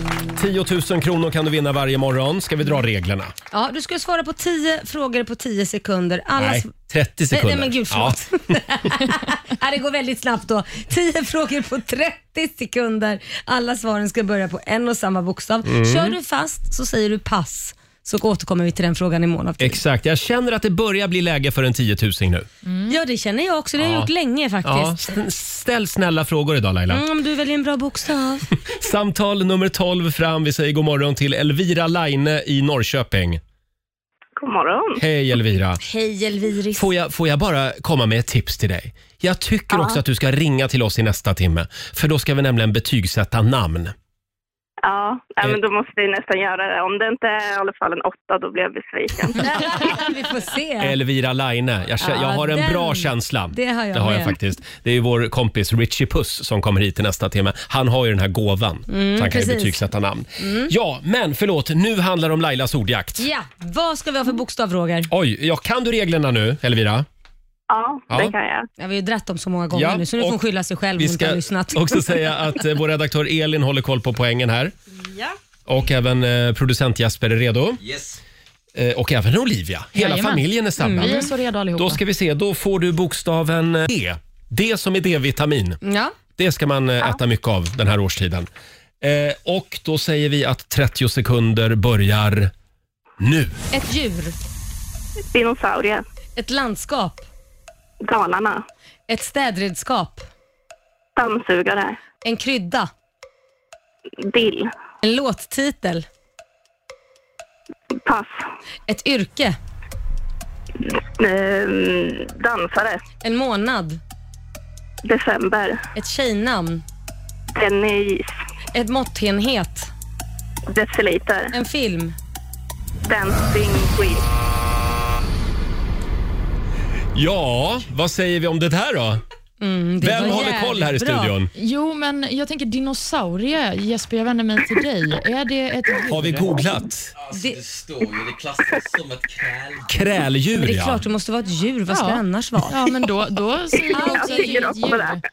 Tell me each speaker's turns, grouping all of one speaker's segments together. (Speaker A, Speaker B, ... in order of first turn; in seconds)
Speaker A: 0.3-3.3, 6.4-8.2, 15.6-16.2, 19.6-22.5, 23.8-24.1, 24.6-27.0, 28.6-33.4, 35.0-35.8, 36.8-43.9, 50.8-63.3, 65.1-67.0, 68.1-68.3, 69.7-70.4, 71.0-74.7, 75.7-77.8, 78.7-85.8, 86.4-88.5, 89.0-92.5, 93.2-93.6, 127.1-129.2, 130.0-131.5, 136.1-137.1, 139.9-141.0
Speaker B: 3.5-6.7, 7.3-19.8, 22.9-25.1, 26.9-28.4, 35.8-36.9, 39.7-40.0, 49.4-50.9, 52.0-54.3, 58.9-59.8, 60.4-60.7, 63.2-65.1, 68.8-72.3, 80.8-81.3, 85.8-86.2, 93.7-94.3, 96.3-97.2, 99.1-100.2, 102.2-102.9, 105.0-106.0, 108.9-109.6, 113.2-114.0, 115.9-116.8, 118.7-119.9, 121.5-122.2, 129.6-131.3, 137.3-137.6, 140.5-142.8, 143.9-144.8
Speaker C: 22.6-22.9, 79.9-82.0, 131.5-136.5, 141.9-145.2
Speaker D: 34.4-35.0, 44.8-49.8, 67.7-68.7, 95.3-96.0, 98.0-98.6, 101.2-102.0, 104.2-104.7, 108.0-108.4, 111.2-113.0, 115.0-115.8, 117.5-118.3, 120.7-121.5, 123.0-124.2, 143.9-145.2
Speaker E: 77.8-78.2, 137.2-140.0